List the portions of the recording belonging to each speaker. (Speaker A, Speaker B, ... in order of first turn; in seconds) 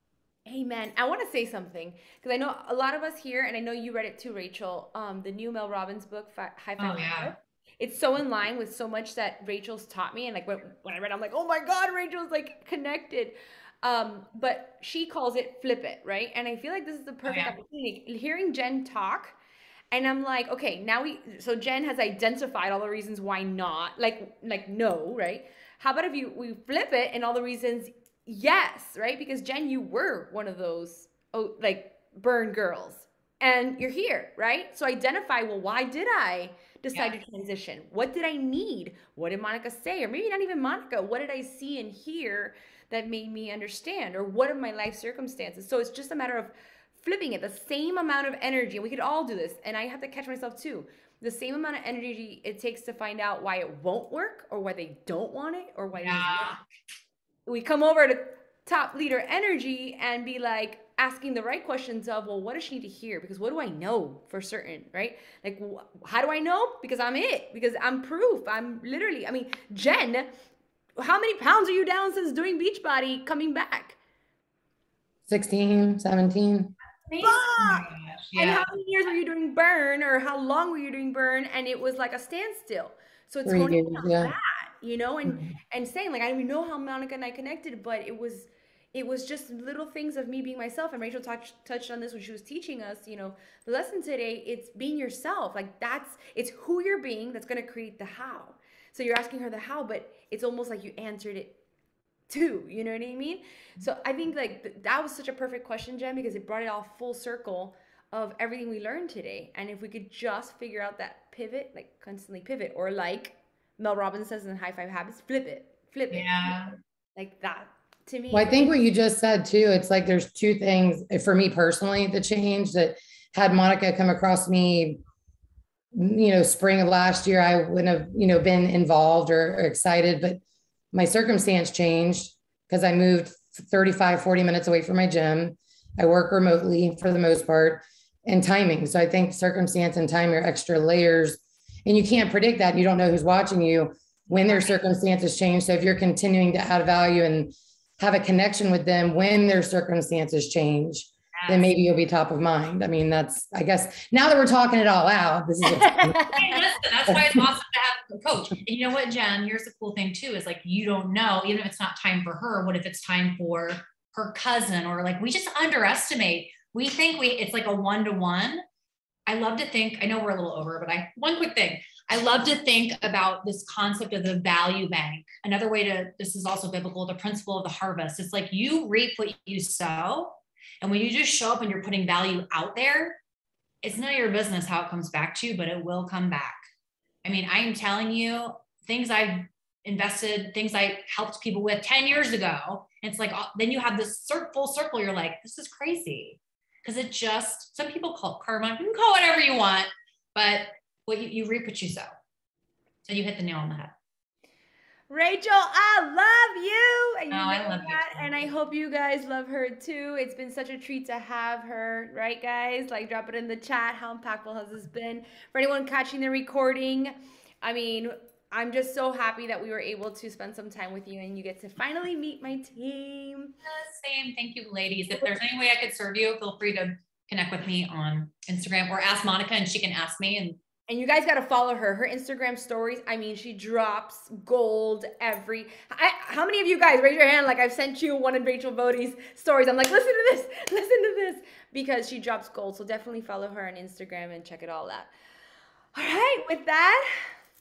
Speaker A: 0.5-19.4, 19.9-56.5, 57.5-70.3, 71.0-74.0, 77.2-101.6, 102.3-116.6, 117.2-118.7, 155.8-156.5, 205.1-223.6, 230.9-245.1, 245.9-247.1
Speaker B: 6.8-7.3, 17.2-17.5, 56.0-56.6, 77.1-78.7, 116.1-116.7, 144.4-144.8, 151.4-151.7, 156.3-168.6, 169.3-183.2, 183.8-186.6, 187.2-202.1, 203.0-203.9, 207.3-208.4, 223.6-230.6
Speaker C: 75.3-76.7, 83.5-84.3, 118.3-125.0, 125.9-130.4, 130.9-156.3